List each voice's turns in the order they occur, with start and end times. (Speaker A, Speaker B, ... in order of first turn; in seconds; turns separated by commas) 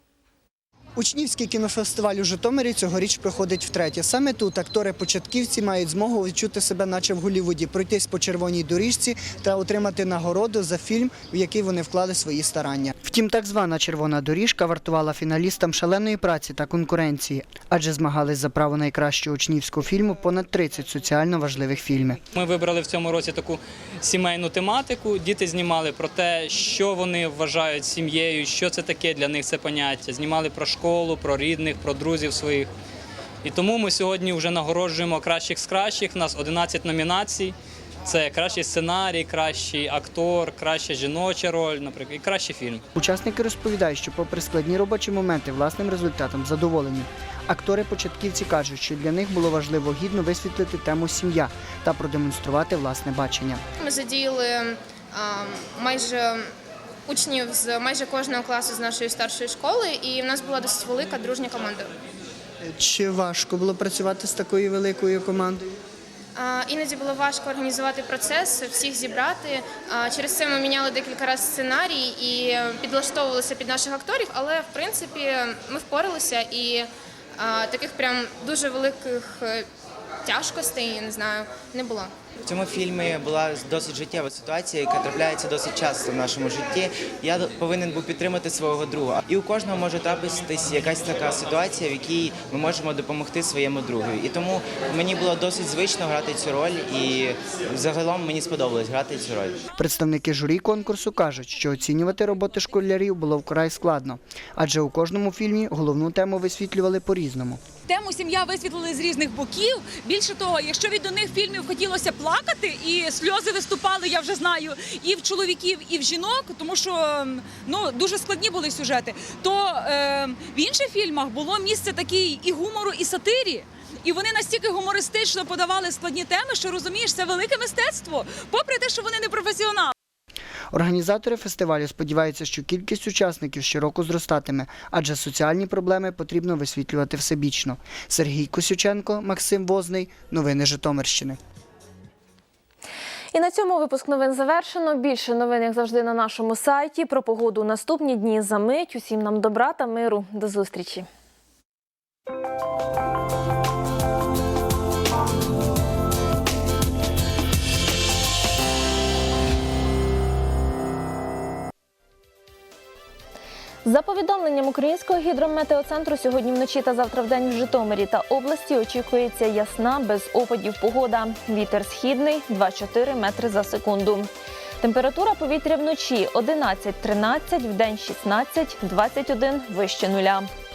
Speaker A: 0.9-22.2, Speaker B: 22.3-32.7, Speaker B: 33.4-37.5, Speaker B: 38.0-42.8, Speaker A: 42.9-53.6, Speaker C: 53.8-56.5, Speaker C: 57.1-61.9, Speaker A: 62.6-65.7, Speaker C: 66.3-79.7, Speaker C: 80.2-82.1, Speaker D: 82.4-99.6, Speaker A: 99.8-107.6, Speaker E: 107.9-129.9, Speaker A: 130.7-141.4, Speaker F: 143.3-151.1, Speaker F: 163.8-174.3, Speaker F: 174.8-180.5